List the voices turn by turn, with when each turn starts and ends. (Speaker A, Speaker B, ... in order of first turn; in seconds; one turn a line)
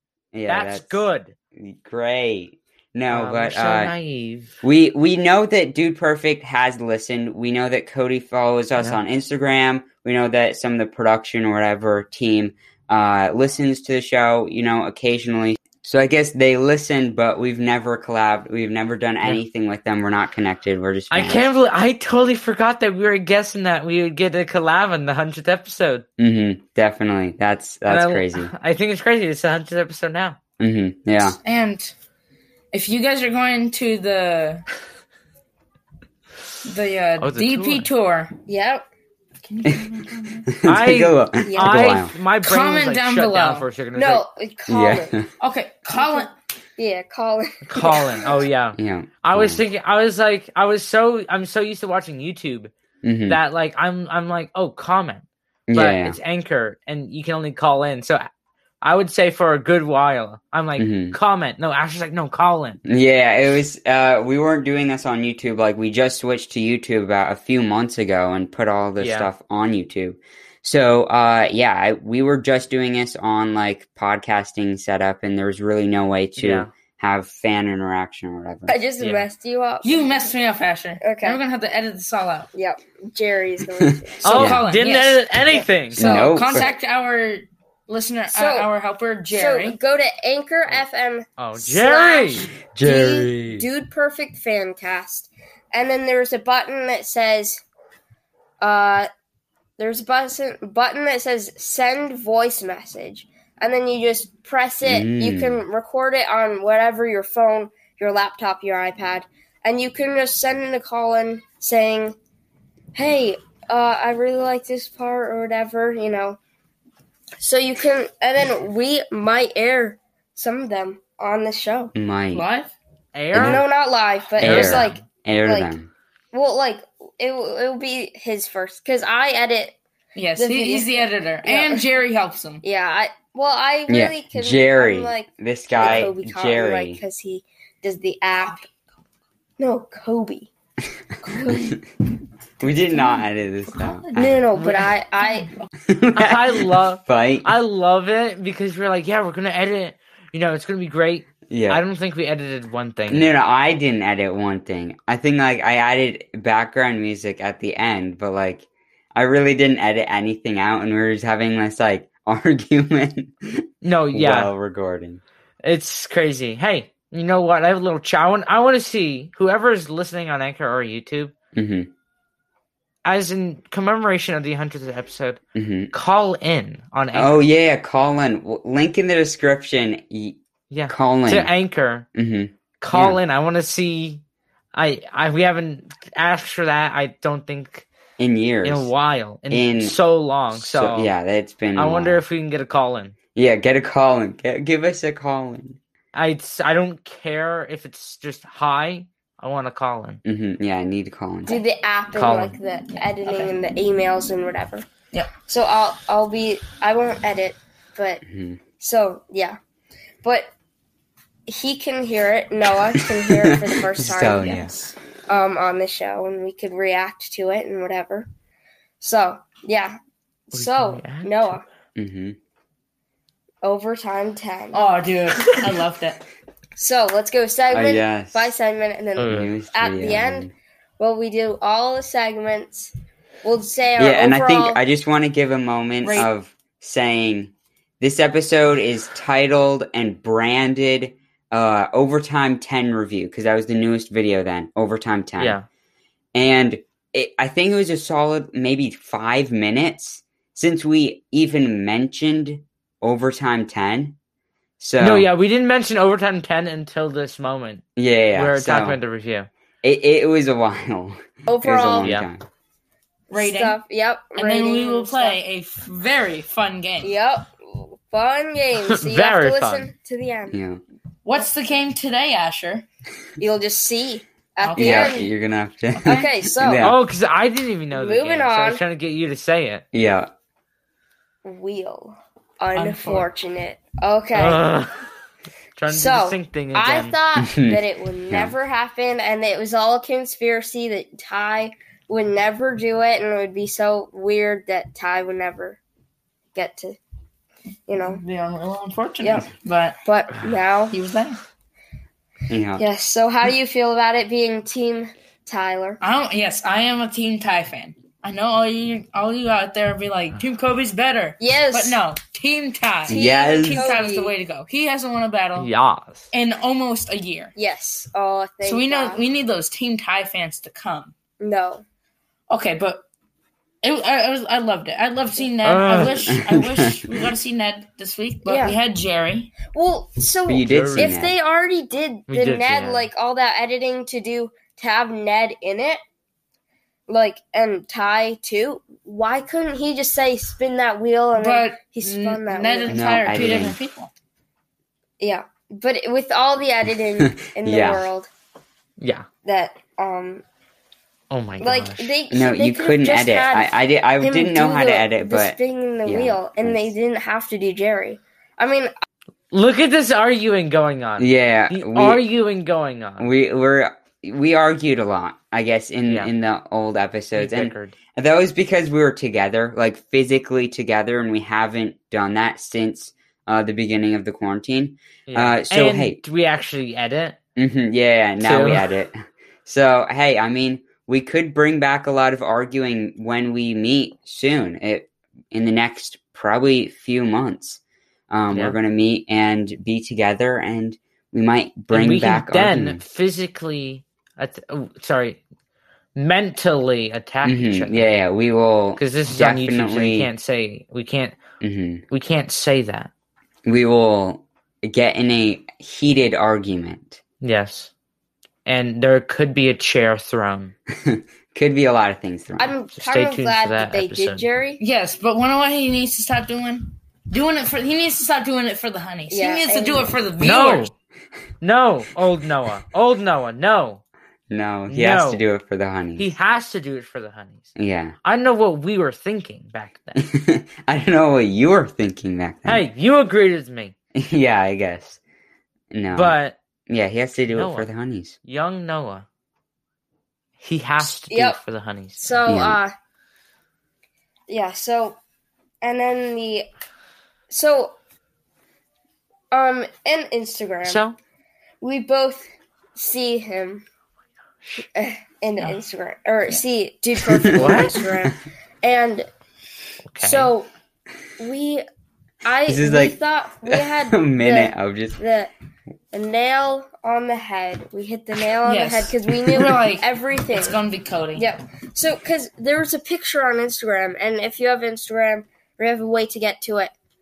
Speaker A: 0.3-1.0
Speaker B: 0.5-1.3
Speaker A: 1.6-3.9
Speaker B: 3.1-4.6
Speaker A: 4.6-21.4
Speaker B: 21.1-26.1
Speaker A: 26.2-28.5
Speaker B: 27.9-30.4
Speaker A: 30.6-31.4
Speaker C: 31.4-31.9
Speaker C: 32.7-34.6
Speaker C: 36.6-38.3
Speaker B: 37.2-37.9
Speaker D: 38.5-38.9
Speaker C: 39.4-40.5
Speaker A: 40.5-42.1
Speaker B: 40.6-44.2
Speaker D: 41.4-41.8
Speaker C: 42.4-43.7
Speaker D: 43.9-45.2
Speaker A: 44.7-45.3
Speaker C: 45.4-46.3
Speaker D: 45.9-48.4
Speaker B: 47.6-52.7
Speaker A: 48.8-49.6
Speaker A: 53.0-53.4
Speaker B: 53.3-58.2
Speaker A: 55.7-56.2
Speaker B: 58.8-62.8
Speaker A: 60.8-61.1
Speaker A: 62.9-78.7
Speaker B: 69.0-69.3
Speaker B: 76.4-76.7
Speaker D: 78.7-80.3
Speaker B: 79.0-79.2
Speaker C: 79.8-82.5
Speaker D: 81.0-81.4
Speaker D: 82.5-84.2
Speaker B: 84.2-86.1
Speaker A: 84.3-84.6
Speaker C: 84.3-85.2
Speaker D: 85.9-86.3
Speaker A: 85.9-86.7
Speaker C: 86.1-89.8
Speaker D: 88.3-88.7
Speaker D: 89.3-97.6
Speaker B: 91.4-92.5
Speaker A: 92.6-93.7
Speaker D: 98.6-99.1
Speaker D: 99.8-112.2
Speaker A: 104.8-105.6
Speaker D: 112.9-116.4
Speaker D: 117.4-121.9
Speaker A: 121.9-122.5
Speaker C: 122.3-122.7
Speaker B: 123.1-123.7
Speaker A: 123.3-123.6
Speaker D: 123.3-125.7
Speaker B: 124.4-125.0
Speaker A: 124.4-125.9
Speaker D: 126.3-129.8
Speaker C: 130.1-132.6
Speaker D: 130.3-131.8
Speaker D: 132.6-138.7
Speaker A: 133.9-137.0
Speaker C: 138.4-138.7
Speaker D: 139.6-140.5
Speaker D: 141.2-141.7
Speaker A: 142.6-144.4
Speaker C: 142.9-145.7
Speaker D: 144.1-145.5
Speaker A: 145.8-147.5
Speaker B: 146.1-153.3
Speaker A: 151.5-151.8
Speaker A: 153.1-165.2
Speaker B: 163.8-164.5
Speaker B: 165.6-171.3
Speaker A: 171.5-171.9
Speaker B: 173.0-175.4
Speaker A: 175.5-175.9
Speaker B: 175.9-177.4
Speaker A: 177.1-181.5
Speaker B: 180.7-182.1
Speaker A: 182.1-183.2
Speaker B: 182.8-184.2
Speaker B: 184.7-187.9
Speaker A: 188.2-188.9
Speaker B: 188.6-191.1
Speaker A: 189.5-190.0
Speaker A: 190.5-192.2
Speaker B: 191.7-193.2
Speaker A: 193.3-195.8
Speaker B: 196.1-200.2
Speaker A: 200.2-201.6
Speaker D: 201.4-204.8
Speaker B: 202.1-202.5
Speaker C: 202.9-203.5
Speaker D: 205.4-208.2
Speaker A: 208.2-208.6
Speaker D: 208.8-209.6
Speaker D: 210.2-210.5
Speaker D: 211.5-214.7
Speaker A: 213.3-214.8
Speaker D: 215.3-218.3
Speaker D: 219.0-220.0
Speaker D: 220.5-221.6
Speaker B: 220.5-221.6
Speaker A: 221.9-222.4
Speaker D: 223.6-224.9
Speaker C: 224.7-226.2
Speaker D: 226.8-232.9
Speaker A: 227.7-228.5
Speaker B: 229.2-229.5
Speaker A: 229.3-230.5
Speaker D: 233.4-234.8
Speaker A: 234.0-245.6
Speaker C: 236.0-236.3
Speaker B: 245.4-245.7
Speaker A: 246.3-254.2
Speaker A: 254.8-255.3
Speaker B: 255.0-259.5
Speaker A: 258.0-259.0
Speaker A: 259.8-262.4
Speaker D: 261.4-262.1
Speaker B: 262.0-262.3
Speaker D: 263.3-265.4
Speaker C: 263.3-263.8
Speaker C: 264.4-267.1
Speaker D: 267.0-270.6
Speaker B: 268.8-269.9
Speaker A: 270.5-270.8
Speaker C: 271.2-272.9
Speaker D: 273.4-275.3
Speaker C: 274.6-275.3
Speaker A: 274.8-277.0
Speaker D: 276.0-276.9
Speaker B: 276.8-279.8
Speaker D: 277.9-278.8
Speaker A: 279.9-280.3
Speaker D: 281.4-284.6
Speaker C: 282.7-283.3
Speaker B: 284.3-285.1
Speaker B: 285.8-287.1
Speaker D: 285.9-295.8
Speaker A: 287.4-288.5
Speaker D: 296.5-297.0
Speaker D: 297.9-298.2
Speaker C: 298.0-300.0
Speaker D: 299.2-299.5
Speaker D: 300.0-300.9
Speaker C: 300.9-301.4
Speaker A: 302.5-302.8
Speaker D: 302.8-306.0
Speaker C: 306.0-315.7
Speaker D: 311.4-312.0
Speaker A: 313.1-314.0
Speaker D: 313.1-314.3
Speaker B: 315.6-316.3
Speaker C: 316.3-317.5
Speaker D: 317.6-319.2
Speaker C: 318.6-321.1
Speaker D: 321.4-321.8
Speaker C: 322.5-323.0
Speaker C: 323.8-329.5
Speaker B: 325.6-326.3
Speaker A: 326.3-327.1
Speaker D: 328.4-328.8
Speaker D: 329.7-336.0
Speaker A: 330.5-331.3
Speaker B: 330.6-331.1
Speaker B: 332.3-333.1
Speaker D: 337.1-343.6
Speaker C: 341.4-344.1
Speaker A: 342.9-343.8
Speaker D: 345.2-348.3
Speaker A: 347.2-348.1
Speaker B: 349.0-349.3
Speaker D: 349.4-350.4
Speaker B: 351.3-352.1
Speaker D: 351.6-358.9
Speaker A: 352.3-356.9
Speaker B: 359.5-363.3
Speaker A: 361.2-362.2
Speaker A: 363.2-376.2
Speaker B: 367.4-367.9
Speaker B: 375.3-377.4
Speaker A: 377.6-393.0
Speaker B: 378.4-378.9
Speaker B: 388.5-388.8
Speaker B: 391.9-395.4
Speaker B: 396.1-398.1
Speaker A: 397.4-400.3
Speaker B: 399.0-401.4
Speaker A: 401.6-402.0
Speaker B: 402.1-403.1
Speaker A: 403.6-407.2
Speaker B: 407.4-407.9
Speaker B: 408.6-410.7
Speaker A: 410.9-412.7
Speaker D: 412.6-414.8
Speaker B: 413.0-414.4
Speaker C: 414.8-420.9
Speaker D: 419.3-420.1
Speaker B: 420.4-420.9
Speaker B: 421.6-424.0
Speaker A: 424.5-426.3
Speaker B: 424.9-425.4
Speaker B: 426.2-430.2
Speaker A: 427.8-428.1
Speaker A: 430.1-432.9
Speaker B: 432.6-433.9
Speaker A: 434.1-435.2
Speaker A: 435.9-436.4
Speaker B: 436.1-436.5
Speaker A: 436.9-438.4
Speaker B: 437.5-437.9
Speaker B: 438.4-439.2
Speaker B: 440.6-442.3
Speaker D: 441.0-441.6
Speaker D: 442.2-442.9
Speaker A: 442.5-442.8
Speaker D: 444.5-445.2
Speaker D: 445.8-446.7
Speaker D: 447.5-447.9
Speaker D: 449.5-451.0
Speaker B: 450.9-451.2
Speaker D: 451.8-453.8
Speaker D: 454.8-459.3
Speaker A: 457.2-458.0
Speaker B: 457.6-458.0
Speaker B: 460.1-460.5
Speaker D: 460.2-460.7
Speaker D: 461.4-461.8
Speaker D: 462.4-465.5
Speaker A: 462.7-465.2
Speaker D: 466.1-470.8
Speaker C: 468.6-471.5
Speaker D: 471.4-476.9